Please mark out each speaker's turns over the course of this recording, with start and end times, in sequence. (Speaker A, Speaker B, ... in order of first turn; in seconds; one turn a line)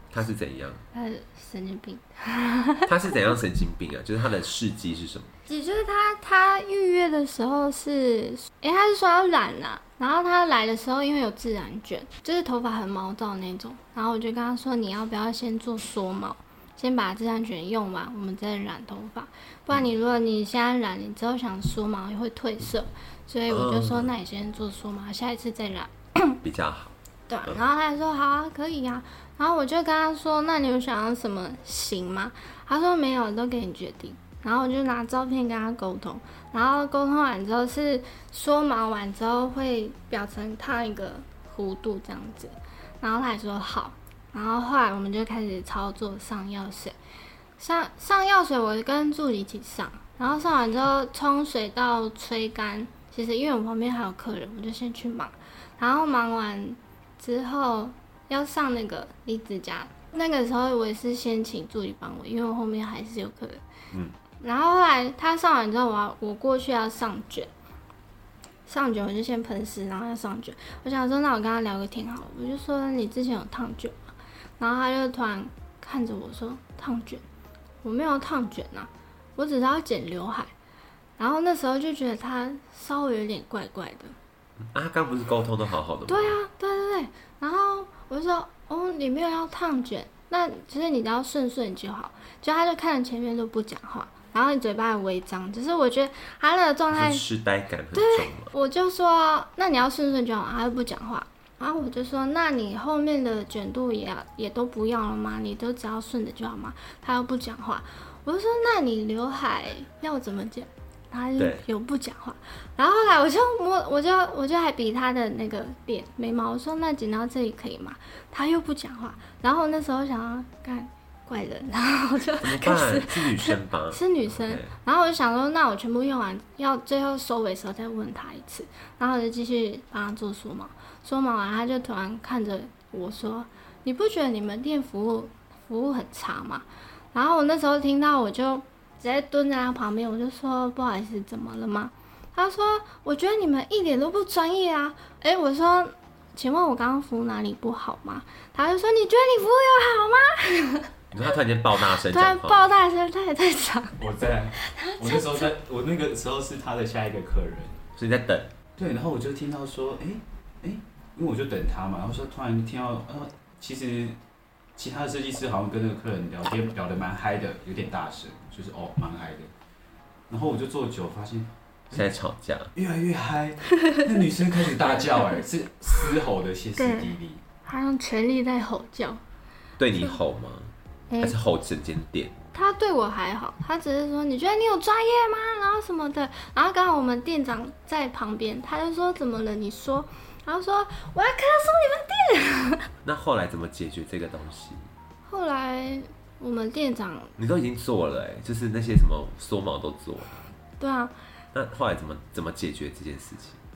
Speaker A: 0.1-0.8
Speaker B: 0.9-3.1
Speaker A: 2.9-5.3
Speaker B: 5.5-26.4
Speaker A: 23.5-24.1
Speaker A: 26.4-26.9
Speaker B: 27.3-46.9
Speaker B: 47.6-63.6
Speaker B: 64.4-67.5
Speaker B: 68.7-74.0
Speaker B: 74.6-77.2
Speaker B: 77.8-80.5
Speaker B: 81.2-84.1
Speaker A: 84.6-86.4
Speaker B: 86.1-97.2
Speaker A: 96.9-98.5
Speaker B: 97.9-150.9
Speaker A: 111.4-111.6
Speaker A: 122.4-124.7
Speaker A: 151.1-152.7
Speaker B: 152.0-154.0
Speaker C: 154.0-157.8
Speaker B: 154.6-155.5
Speaker A: 157.9-158.5
Speaker C: 158.8-164.2
Speaker C: 164.8-169.5
Speaker C: 170.3-172.1
Speaker A: 171.9-172.7
Speaker C: 172.7-177.4
Speaker B: 176.8-177.1
Speaker B: 177.6-179.2
Speaker A: 179.8-182.3
Speaker B: 181.1-181.3
Speaker B: 182.5-192.9
Speaker A: 193.0-194.8
Speaker B: 195.3-197.3
Speaker A: 197.4-200.5
Speaker B: 200.8-201.1
Speaker A: 201.5-203.6